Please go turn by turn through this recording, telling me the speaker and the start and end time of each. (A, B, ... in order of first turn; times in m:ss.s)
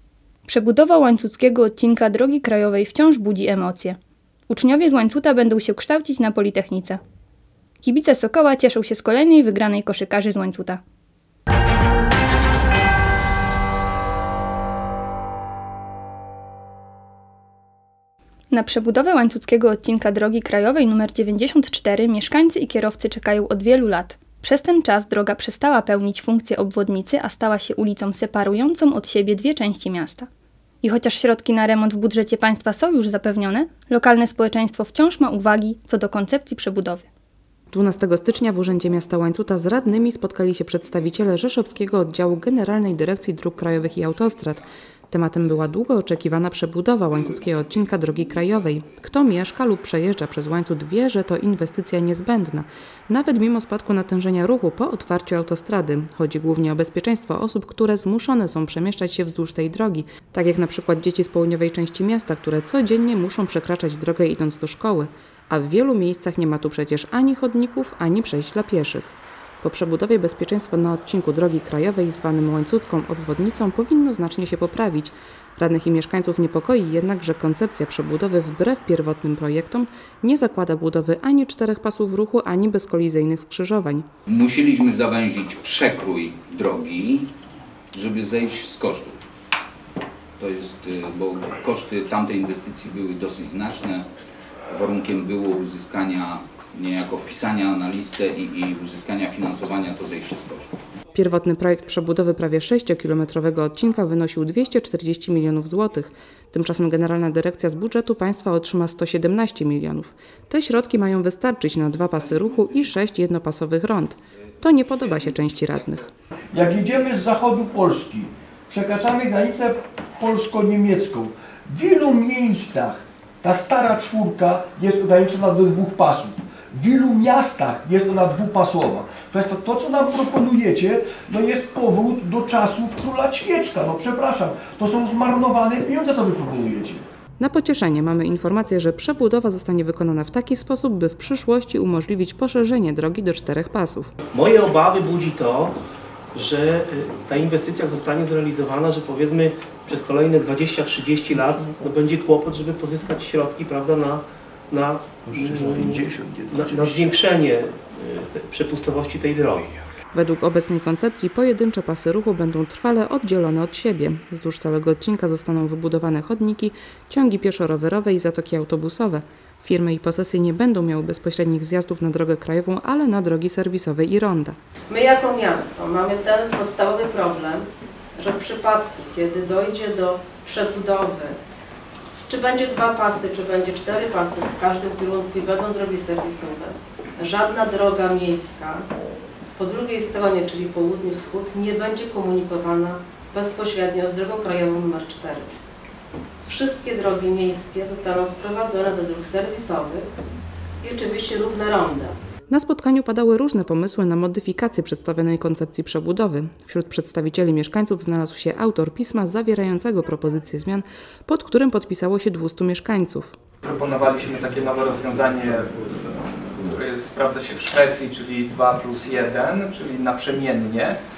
0:00.4-0:04.0 A
0:04.5-0:07.0 A
0:07.8-0:10.8 A
0:18.5-0:30.3 A
0:30.8-0:37.1 A
0:37.7-1:24.1 B
1:24.3-1:27.3 C
1:27.9-1:29.2 C
1:30.4-1:34.1 C
1:34.7-1:40.7 C
1:41.1-1:56.1 B
1:56.5-2:17.0 D
2:17.4-2:24.1 B
2:24.3-2:25.8 E
2:26.4-2:36.0 E
2:31.4-2:31.8 D
2:35.3-2:37.3 D
2:36.6-2:39.7 E
2:40.1-2:54.6 B
2:54.9-2:57.7 F
2:58.2-3:01.4 F
3:02.3-3:08.8 F
3:09.6-3:15.5 F
3:16.4-3:20.1 F
3:20.8-3:22.2 F
3:22.5-3:33.4 B
3:33.6-3:41.0 G